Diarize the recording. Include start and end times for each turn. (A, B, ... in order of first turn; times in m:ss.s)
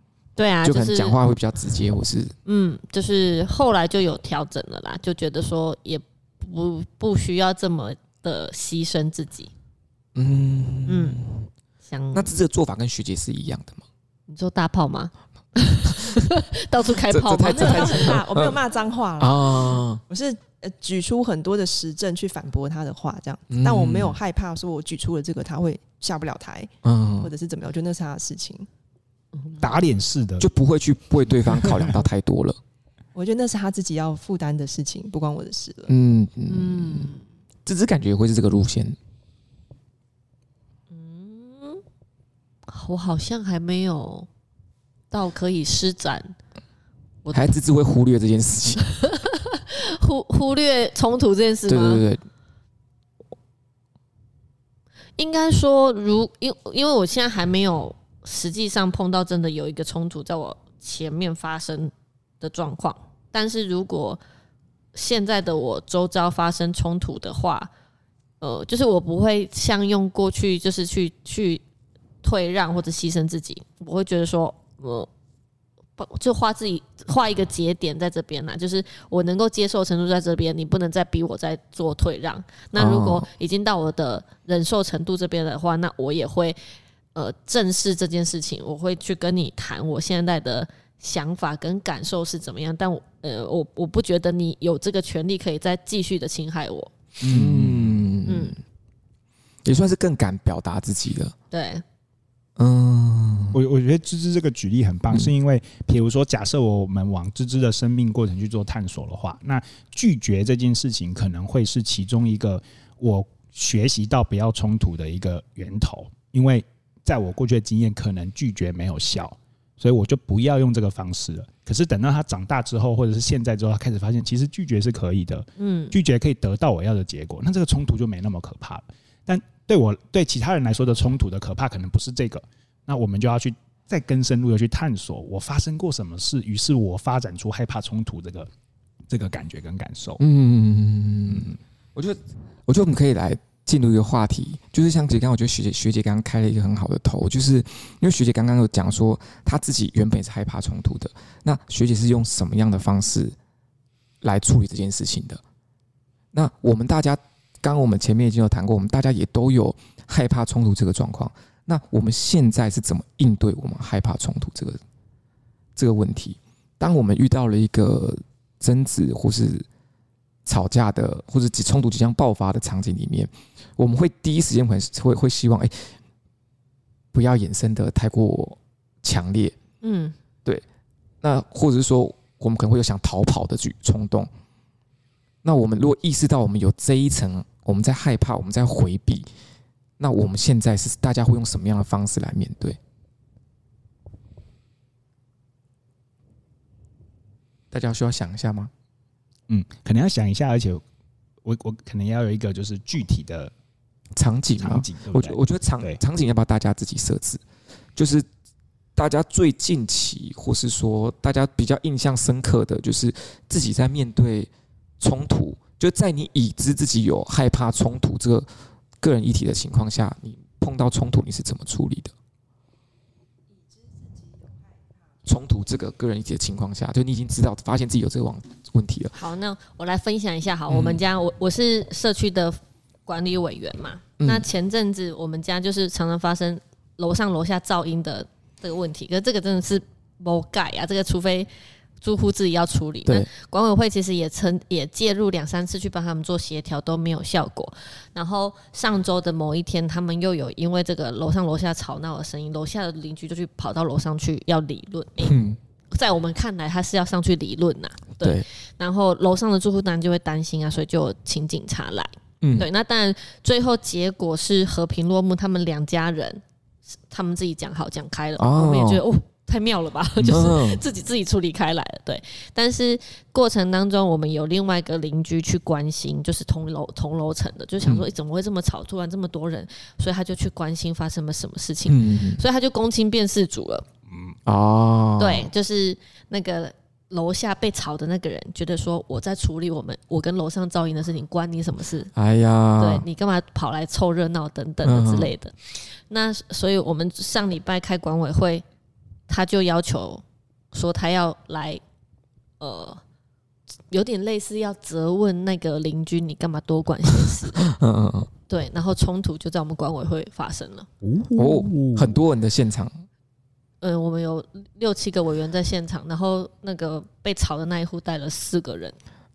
0:00.4-0:01.2 A
0:00.6-0:02.3 B
0:02.4-0:09.5 A
0:10.1-0:11.5 B
0:10.9-0:11.2 A
0:11.9-0:12.3 A
0:12.1-0:13.8 B
0:14.3-0:18.2 A
0:15.8-0:16.2 B
0:17.1-0:18.6 B
0:17.5-0:28.7 C
0:19.2-0:20.0 B
0:23.5-0:24.2 B
0:26.8-0:27.3 B
0:29.6-0:30.5 D
0:30.4-0:32.6 B
0:31.6-0:31.9 D
0:33.1-0:35.9 C
0:35.9-0:37.1 B
0:36.5-0:37.2 A
0:37.6-0:39.0 B
0:40.9-0:41.8 A
0:42.7-0:44.3 A
0:45.1-0:46.3 A
0:47.2-0:47.5 A
0:47.3-0:48.8 B
0:48.9-0:52.0 A
0:51.7-0:52.2 B
0:55.2-1:04.2 A
1:04.9-1:07.7 A
1:08.4-1:11.6 A
1:12.2-1:15.1 A
1:16.0-1:26.6 A
1:22.7-1:23.3 B
1:27.1-1:36.9 A
1:37.2-1:38.1 D
1:37.3-1:38.6 B
1:38.2-1:38.6 A
1:39.6-1:41.3 B
1:41.5-1:41.8 A
1:42.6-1:43.6 B
1:43.5-2:18.5 D
2:05.6-2:06.0 A
2:19.1-2:20.2 D
2:20.2-2:33.3 B
2:21.3-2:21.6 D
2:34.2-2:35.4 B
2:36.3-2:44.8 B
2:45.8-2:49.6 B
2:50.4-2:55.9 B
2:57.1-2:59.5 B
2:59.8-3:00.1 A
3:01.2-3:04.3 B
3:05.4-3:09.3 B
3:10.0-3:12.8 B
3:17.7-3:18.7 B
3:19.5-3:20.8 D
3:21.4-3:23.5 D
3:24.2-3:27.4 B
3:24.6-3:26.0 D
3:28.0-3:28.3 B
3:29.0-3:38.5 B
3:39.0-3:42.1 B
3:45.2-3:49.1 B
3:49.1-4:01.5 A
3:50.7-3:51.0 B
3:54.2-3:54.5 B
4:02.0-4:15.4 A
4:15.2-4:15.6 B
4:15.9-4:26.4 A
4:18.2-4:18.4 B
4:22.4-4:22.7 B
4:27.1-4:43.8 A
4:28.4-4:29.0 B
4:30.2-4:30.8 B
4:41.8-4:42.4 B
4:44.1-4:44.4 D
4:44.4-4:45.5 B
4:45.2-4:52.1 A
4:52.1-4:53.0 B
4:52.8-4:58.6 A
4:54.8-4:55.3 B
4:59.3-5:01.8 A
5:02.6-5:03.0 A
5:03.9-5:07.7 A
5:07.6-5:08.3 B
5:08.5-5:10.9 A
5:11.0-5:12.2 D
5:11.4-5:13.0 B
5:13.8-5:19.0 A